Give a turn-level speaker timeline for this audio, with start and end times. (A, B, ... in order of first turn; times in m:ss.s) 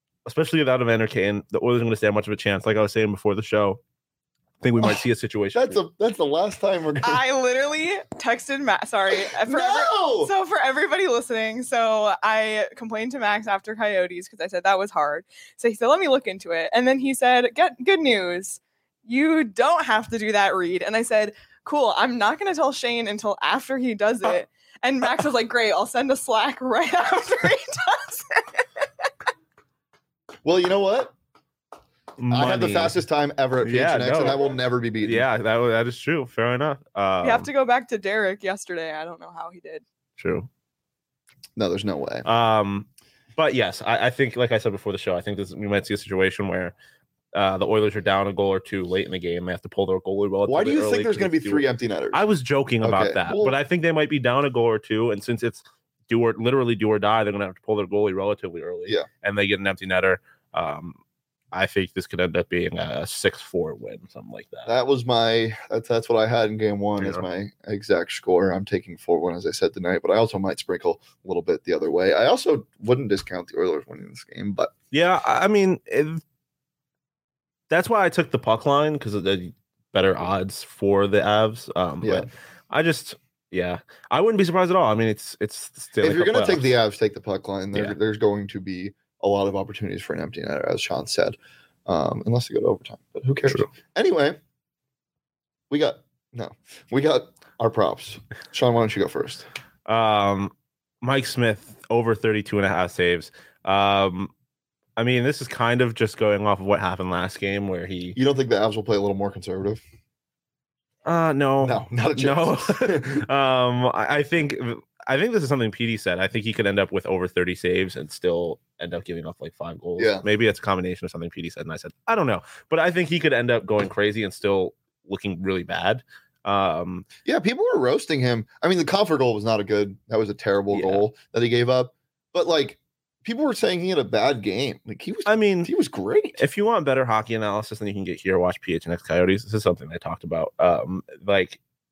0:00.2-0:03.8 A
0:04.6-0:05.8 A
0:05.6-0:07.3 B
0:07.0-0:28.6 C
0:09.1-0:10.3 B
0:30.4-0:31.1 B
0:32.2-0:33.0 A
0:32.3-0:35.3 B
0:33.6-0:34.4 A
0:35.0-0:37.5 A
0:37.2-0:39.8 C
0:40.2-0:40.5 A
0:41.6-0:42.2 B
0:42.2-0:46.8 A
0:47.4-1:01.0 A
0:50.5-0:52.2 B
0:52.8-0:53.6 B
1:01.5-1:04.7 A
1:04.7-1:14.7 B
1:07.0-1:07.2 A
1:14.9-1:16.2 A
1:17.7-1:26.7 A
1:22.0-1:22.3 B
1:26.0-1:34.4 B
1:35.7-1:39.5 B
1:39.9-1:44.3 A
1:45.0-1:48.2 A
1:48.2-1:49.8 B
1:51.1-2:07.1 A
1:51.6-1:53.2 B
2:00.0-2:00.3 B
2:07.2-2:16.4 B
2:10.7-2:11.1 A
2:15.3-2:15.7 A
2:16.4-2:21.6 A